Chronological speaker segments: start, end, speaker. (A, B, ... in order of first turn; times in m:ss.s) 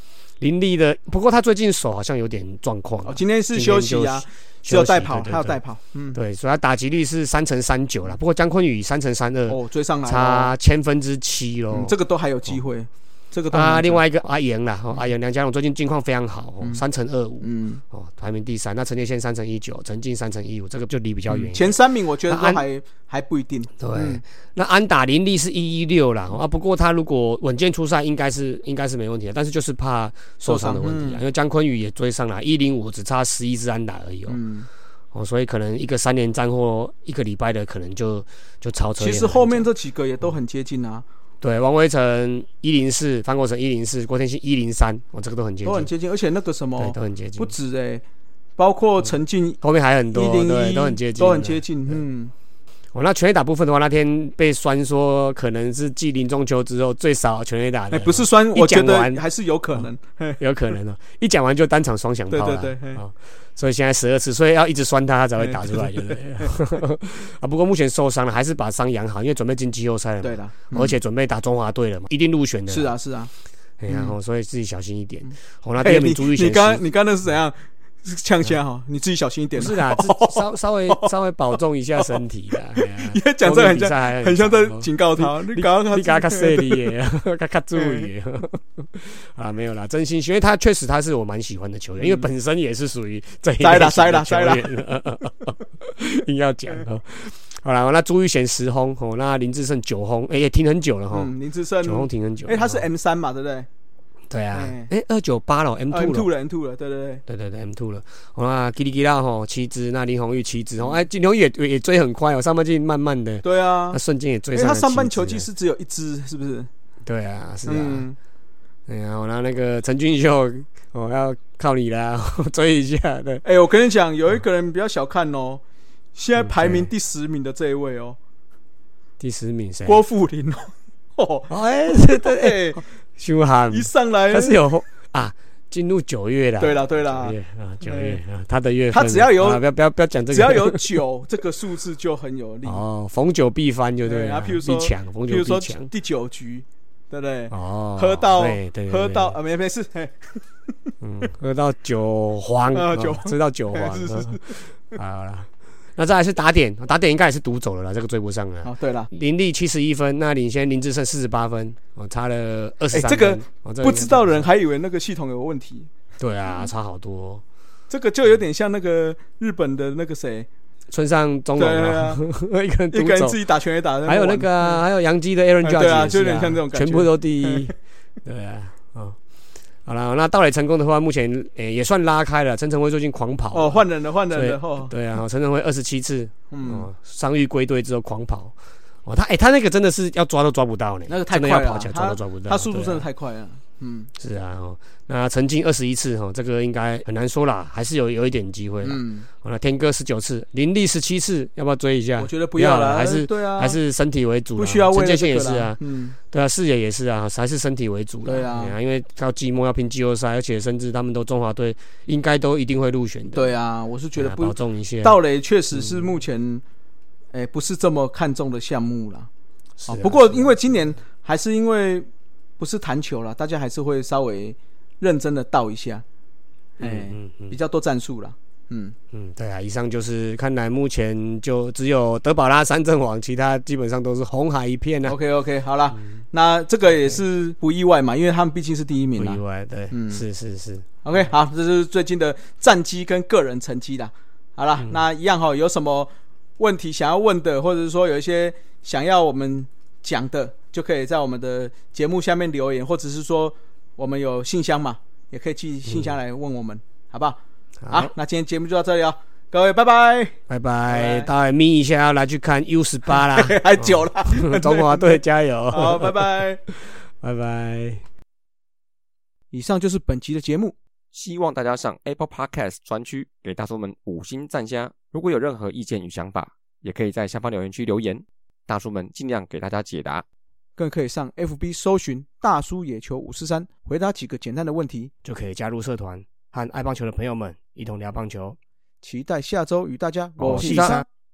0:00.4-0:05.6 A
0:03.0-0:06.2 B
0:06.1-0:11.9 A
0:09.5-0:10.5 B
0:11.7-0:14.0 B
0:13.5-0:22.6 A
0:17.4-0:17.8 B
0:21.3-0:24.2 B
0:23.8-0:34.4 A
0:30.4-0:31.2 B
0:34.3-0:34.7 B
0:35.1-0:39.7 A
0:39.0-0:41.0 B
0:41.4-0:45.9 A
0:45.6-0:48.0 B
0:46.8-0:47.5 A
0:48.6-0:49.6 B
0:49.0-0:52.0 A
0:50.1-0:52.3 B
0:52.9-0:59.2 A
0:57.9-1:00.4 B
1:00.4-1:13.0 A
1:02.3-1:03.0 B
1:05.4-1:06.5 B
1:10.2-1:11.0 B
1:12.7-1:13.3 B
1:13.8-1:16.8 A
1:13.9-1:14.1 B
1:15.2-1:21.1 B
1:19.6-1:42.8 A
1:22.7-1:26.9 B
1:27.8-1:28.1 B
1:32.0-1:32.3 B
1:33.6-1:34.7 B
1:41.1-1:43.7 B
1:44.3-1:46.3 A
1:44.5-1:44.9 B
1:45.9-1:47.2 B
1:47.3-1:55.5 A
1:53.4-1:54.0 B
1:54.5-1:56.7 B
1:57.0-1:58.1 A
1:57.6-1:58.2 B
1:58.9-2:03.4 A
2:03.4-2:05.6 B
2:06.1-2:08.2 B
2:06.4-2:06.9 A
2:09.2-2:10.0 A
2:09.8-2:12.8 B
2:11.5-2:20.8 A
2:13.7-2:14.6 B
2:16.6-2:18.2 B
2:18.9-2:19.6 B
2:20.3-2:22.8 B
2:22.6-2:25.9 A
2:24.0-2:30.4 B
2:27.5-2:29.4 A
2:31.0-2:44.5 A
2:32.7-2:34.9 B
2:38.6-2:39.1 B
2:42.9-2:45.9 B
2:46.2-2:47.4 A
2:47.9-2:50.5 B
2:50.9-2:53.4 A
2:51.5-2:52.2 B
2:52.9-2:54.8 B
2:54.0-2:59.2 A
2:55.6-2:57.7 B
2:59.8-3:13.0 A
3:03.5-3:04.9 B
3:06.5-3:06.9 B
3:11.1-3:14.1 B
3:14.2-3:33.5 A
3:18.8-3:19.3 B
3:22.2-3:23.8 B
3:24.6-3:26.2 B
3:28.2-3:28.8 B
3:33.3-3:36.6 B
3:34.2-3:35.2 A
3:35.7-3:36.1 A
3:37.3-3:39.3 B
3:39.8-3:40.6 A
3:39.8-3:42.1 B
3:42.6-3:46.0 B
3:46.8-3:48.9 B
3:46.8-3:47.5 A
3:49.1-3:55.2 A
3:55.0-4:00.2 B
3:59.2-4:01.2 A
4:01.0-4:17.4 B
4:15.9-4:16.1 A
4:17.8-4:18.1 A
4:17.9-4:20.4 B
4:20.5-4:28.0 A
4:20.9-4:21.3 B
4:23.1-4:26.6 B
4:29.5-4:30.7 B
4:31.1-4:40.2 C
4:40.8-4:45.1 B
4:45.2-4:48.6 A
4:49.0-4:51.0 B
4:50.4-4:51.0 A
4:50.6-4:51.0 C